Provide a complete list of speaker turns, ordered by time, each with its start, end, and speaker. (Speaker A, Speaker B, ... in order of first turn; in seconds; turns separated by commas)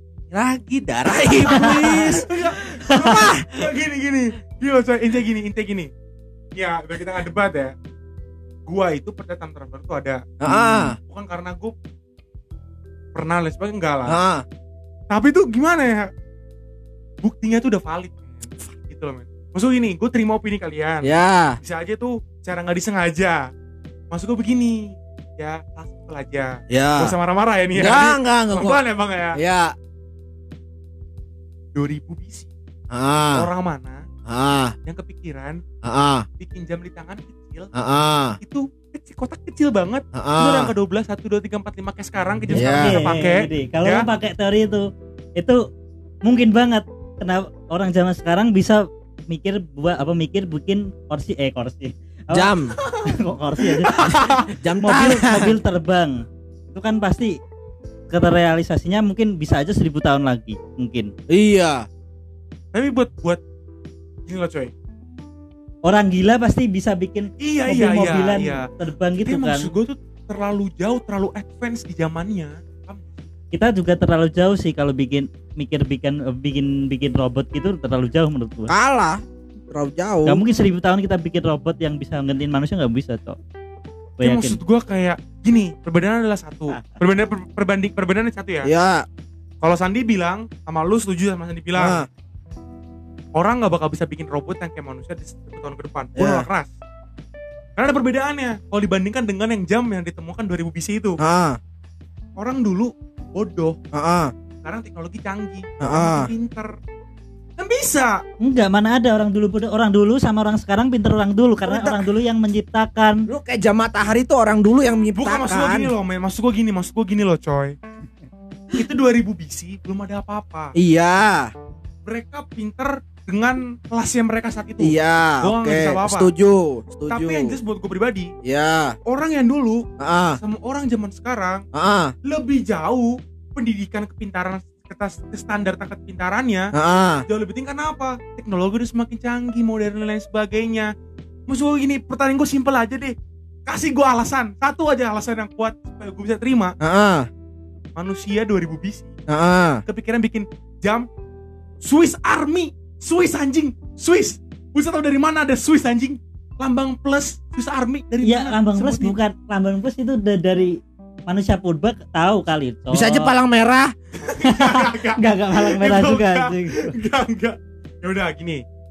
Speaker A: 0.3-3.7, Speaker B: 1.1-5.9, Speaker C: 1.5-2.0, Speaker B: 6.6-7.7, Speaker B: 8.7-10.3, Speaker A: 10.4-11.0, Speaker C: 10.5-10.9, Speaker B: 11.0-11.7, Speaker B: 13.2-14.2, Speaker A: 14.1-14.4, Speaker B: 15.1-16.1, Speaker B: 17.2-21.1, Speaker A: 21.0-21.6, Speaker B: 21.6-23.4, Speaker B: 24.1-29.4, Speaker A: 26.7-27.1, Speaker A: 27.8-28.8, Speaker A: 29.4-29.7, Speaker B: 31.8-32.5, Speaker A: 32.9-33.5, Speaker B: 33.3-34.0, Speaker A: 34.3-34.8, Speaker B: 34.9-35.6, Speaker A: 35.8-36.3, Speaker B: 36.4-37.7, Speaker A: 37.7-38.4, Speaker B: 38.4-44.1, Speaker A: 40.1-40.7, Speaker C: 42.5-45.6, Speaker A: 42.5-43.0, Speaker C: 46.2-54.3, Speaker A: 52.3-52.8, Speaker B: 52.8-54.5, Speaker A: 54.0-55.6, Speaker C: 54.8-57.4, Speaker C: 58.1-61.1, Speaker A: 61.3-61.9, Speaker B: 62.7-63.4, Speaker B: 64.3-64.7, Speaker C: 65.8-69.7, Speaker B: 67.4-68.7, Speaker B: 69.2-73.3, Speaker C: 73.5-78.7, Speaker A: 78.7-80.4, Speaker C: 80.3-83.4, Speaker C: 84.2-84.6, Speaker B: 84.2-88.7, Speaker A: 88.6-89.1, Speaker B: 89.6-92.0, Speaker A: 91.8-92.1, Speaker B: 93.3-96.7, Speaker A: 96.2-96.5, Speaker B: 97.8-101.2, Speaker A: 101.2-101.6, Speaker B: 102.4-103.8, Speaker A: 103.9-104.3, Speaker B: 104.6-106.8, Speaker A: 105.8-106.3, Speaker B: 107.6-108.2, Speaker C: 108.4-113.3, Speaker A: 111.7-112.0, Speaker A: 113.3-115.9, Speaker B: 115.2-117.8, Speaker B: 118.7-120.8, Speaker A: 120.8-121.5, Speaker B: 122.1-126.3, Speaker A: 124.8-127.6, Speaker B: 127.1-128.3, Speaker A: 128.4-129.0, Speaker B: 129.1-129.8, Speaker A: 130.0-130.4, Speaker B: 130.4-131.7, Speaker A: 131.7-132.1, Speaker B: 132.2-136.7, Speaker A: 136.7-137.3, Speaker B: 137.3-140.9, Speaker B: 141.5-143.2, Speaker B: 143.7-146.8, Speaker A: 146.8-147.3, Speaker B: 148.0-149.1, Speaker A: 149.3-149.8, Speaker B: 149.9-151.1, Speaker B: 151.8-159.2, Speaker C: 158.2-163.3, Speaker A: 162.9-163.9, Speaker B: 164.2-168.6, Speaker C: 164.4-166.9